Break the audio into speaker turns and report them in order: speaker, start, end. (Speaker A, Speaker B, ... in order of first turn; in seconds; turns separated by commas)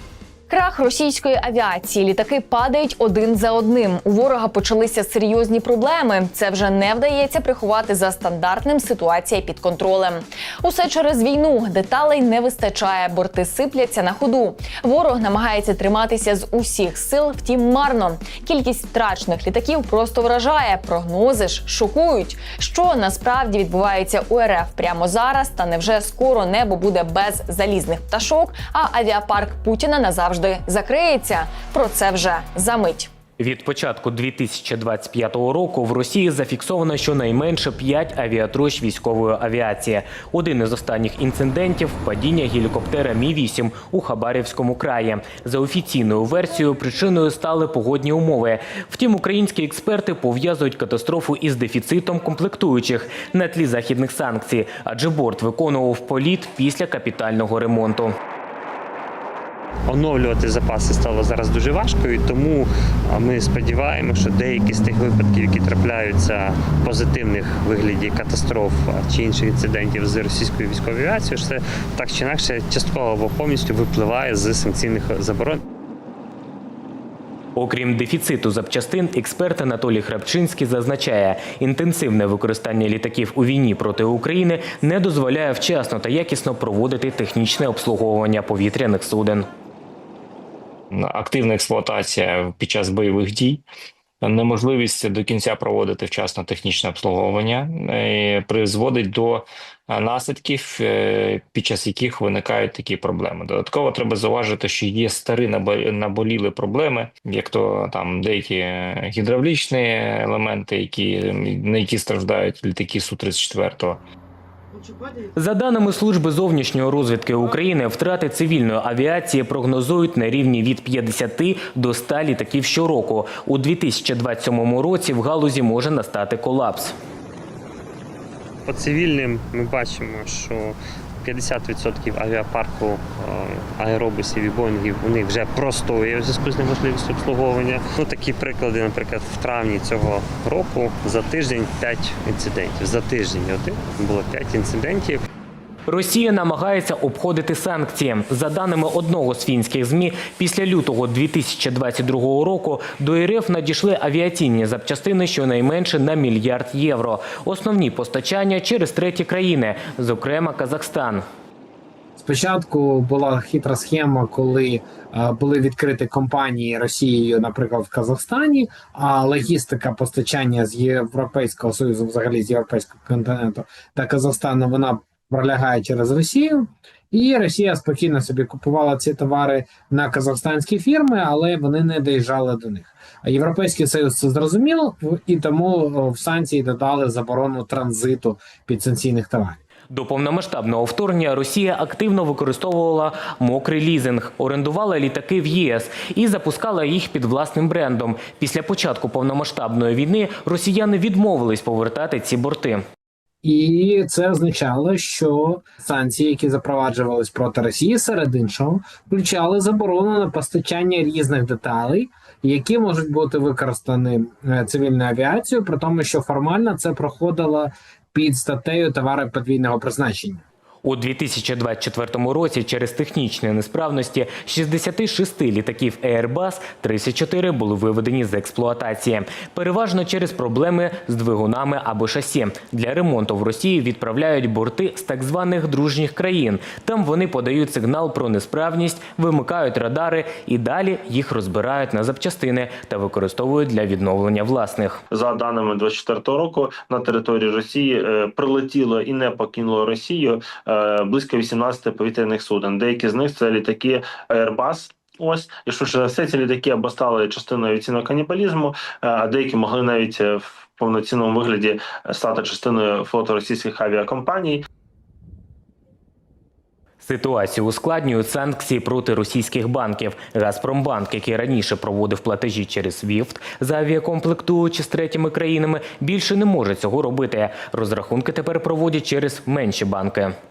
Speaker A: 0.5-33.1, Speaker B: 33.4-58.1, Speaker C: 59.9-75.6, Speaker B: 77.6-89.5, Speaker D: 90.9-93.7, Speaker D: 94.2-114.0, Speaker B: 115.4-126.9, Speaker C: 128.7-145.2, Speaker B: 145.9-161.2, Speaker E: 162.2-189.6, Speaker B: 189.9-202.8, Speaker E: 203.4-220.4, Speaker B: 220.8-245.0, Speaker F: 245.1-264.6, Speaker B: 267.0-280.3